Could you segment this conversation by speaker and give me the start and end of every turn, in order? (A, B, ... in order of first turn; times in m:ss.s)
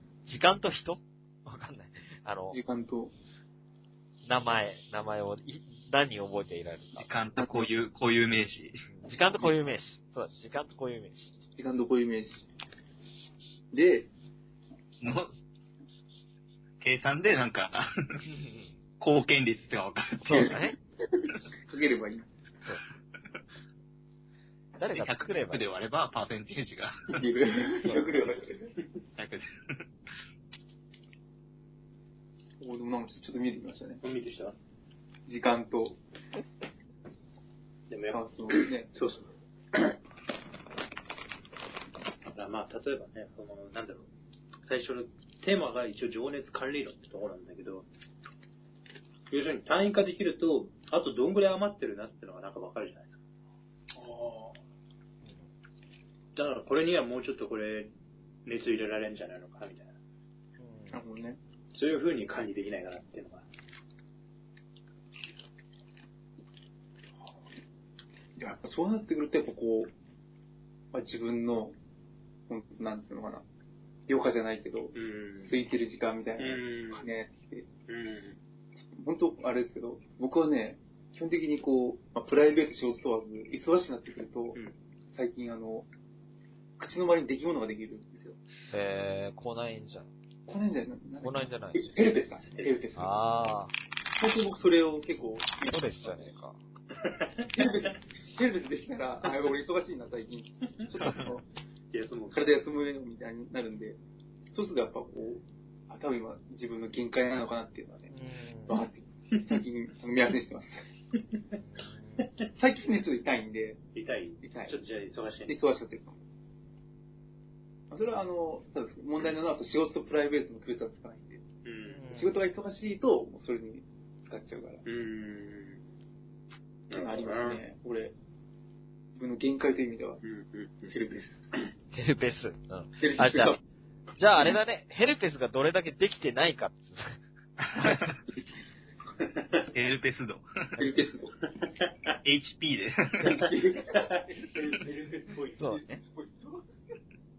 0:00.3-0:02.6 A
0:02.5-0:03.1 B
0:04.2-0:07.6 A
0:07.0-0:08.8 C
0:08.9-0:11.4 A
0:11.6-0:12.5 B
0:13.7-0:14.1 B
0:15.0-0:15.3 C
0:16.8-0:17.9 C
0:18.2-0:18.7 A
0:19.0-0:20.3 C
0:20.2-0:20.8 A
0:20.3-0:20.7 B
0:21.7-0:22.3 B
0:24.8-0:25.7 A
0:24.9-0:27.2 C
0:27.2-0:28.7 B
0:27.8-0:28.2 A
0:29.2-0:29.8 C
0:32.6-0:34.0 B
0:34.0-0:34.6 D
0:35.3-0:36.0 B
0:37.9-0:40.0 D
0:38.1-0:38.9 B
0:42.3-0:44.1 D
0:44.7-0:47.9 D
0:49.3-0:53.2 D
0:53.9-0:54.6 B
0:56.4-0:57.9 D
0:58.5-1:00.0 D
1:00.6-1:01.0 A
1:00.9-1:01.4 B
1:01.7-1:03.4 D
1:08.4-1:09.9 B
1:10.9-1:11.8 B
1:12.5-1:13.4 B
1:14.1-1:17.7 B
1:14.9-1:15.6 D
1:16.4-1:17.1 D
1:17.9-1:18.4 D
1:18.9-1:24.6 B
1:25.1-1:25.9 B
1:26.8-1:28.4 B
1:28.7-1:30.1 A
1:30.5-1:33.1 B
1:31.2-1:31.9 A
1:32.4-1:32.7 D
1:33.0-1:33.7 A
1:34.2-1:36.3 B
1:35.6-1:36.6 A
1:37.0-1:37.9 D
1:37.5-1:41.4 B
1:41.9-1:42.5 D
1:42.3-1:44.0 B
1:44.5-1:48.1 B
1:48.1-1:48.8 A
1:48.7-1:50.9 B
1:51.5-1:52.3 A
1:52.5-1:53.8 B
1:53.9-1:55.6 D
1:54.4-1:54.8 B
1:55.5-1:56.2 B
1:57.9-2:01.4 B
2:01.6-2:02.0 D
2:01.9-2:02.4 A
2:02.1-2:04.8 B
2:04.8-2:05.8 D
2:06.9-2:07.6 D
2:06.9-2:08.1 B
2:09.1-2:10.2 B
2:10.2-2:10.9 D
2:10.9-2:11.5 B
2:11.9-2:13.6 A
2:13.0-2:13.6 B
2:14.2-2:17.1 A
2:17.8-2:18.1 C
2:19.2-2:19.6 D
2:19.7-2:20.4 C
2:20.8-2:21.4 B
2:21.6-2:22.1 D
2:22.2-2:23.5 C
2:23.2-2:24.8 B
2:23.9-2:25.6 D
2:25.6-2:26.0 A
2:25.6-2:26.7 B